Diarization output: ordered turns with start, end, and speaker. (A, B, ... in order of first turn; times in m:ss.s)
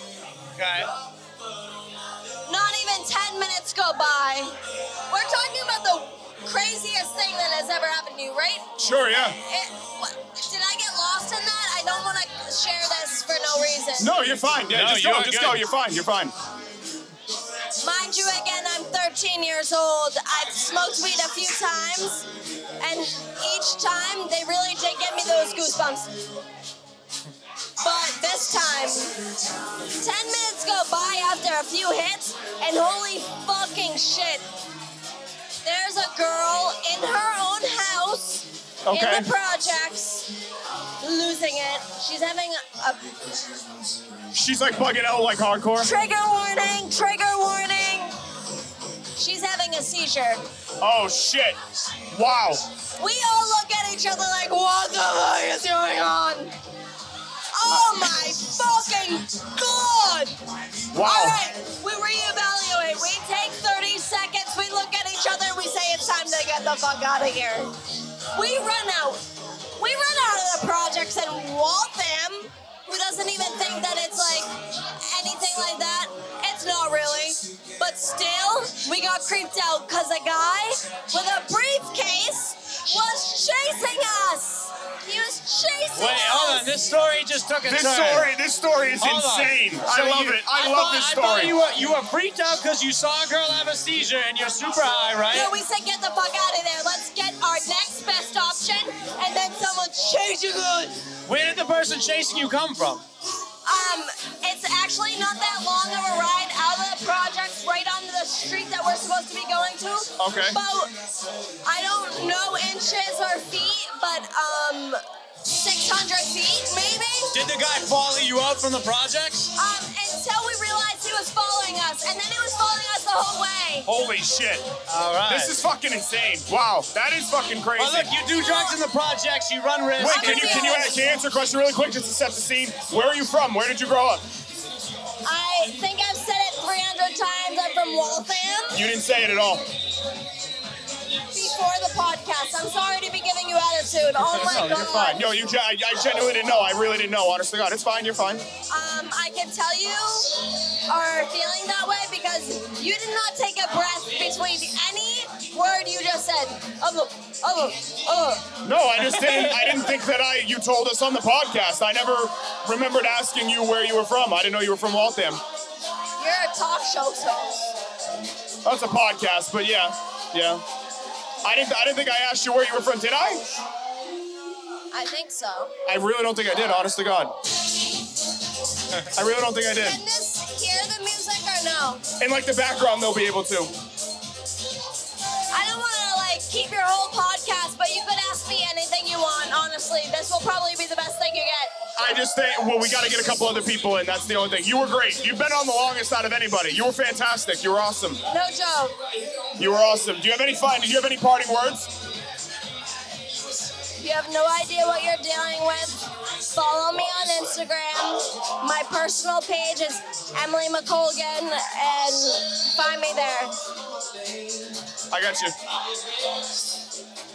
0:00.6-0:00.9 A
0:02.4-0:04.5 B
0:05.1-0:08.7 B
0:08.8-0:09.4 C
0:09.4-0:14.1 B
0:14.0-0:16.3 C
0:14.7-0:15.7 A
0:17.8-0:22.3 B
0:22.8-0:26.1 B
0:27.8-0:29.2 B
0:30.0-0:34.4 B
0:35.6-0:40.3 B
0:38.9-0:39.3 C
0:41.0-0:43.2 B
0:44.3-0:45.9 C
0:45.8-0:48.1 B
0:49.2-0:50.4 B
0:50.8-0:51.6 C
0:52.1-0:52.6 C
0:53.0-0:56.5 B
0:57.5-1:00.4 B
1:00.9-1:01.4 C
1:01.0-1:07.7 B
1:08.4-1:09.2 B
1:09.8-1:14.5 B
1:15.0-1:26.7 B
1:26.0-1:28.3 A
1:27.7-1:31.6 C
1:29.0-1:35.5 A
1:35.3-1:41.0 B
1:41.3-1:43.0 A
1:43.6-1:50.9 B
1:50.2-1:50.6 C
1:51.6-1:57.4 B
1:57.3-1:59.5 A
1:59.6-2:03.9 B
2:03.8-2:04.7 C
2:04.9-2:05.6 A
2:05.3-2:08.1 C
2:07.8-2:10.8 A
2:08.3-2:08.8 B
2:10.0-2:14.2 C
2:10.0-2:11.0 B
2:15.2-2:18.8 B
2:18.7-2:19.6 C
2:21.3-2:25.3 B
2:24.4-2:28.4 C
2:24.4-2:24.8 A
2:28.7-2:38.5 B
2:38.6-2:45.4 C
2:39.1-2:39.7 A
2:46.2-2:47.7 B
2:48.6-2:50.6 C
2:51.4-2:53.4 C
2:54.9-2:55.7 B
2:55.9-2:57.3 C
2:59.1-3:00.0 C
2:59.6-3:02.0 B
3:02.2-3:03.7 C
3:05.5-3:11.7 B
3:12.0-3:18.2 C
3:18.3-3:19.0 B
3:19.6-3:21.9 C
3:24.0-3:33.6 B
3:35.1-3:35.6 C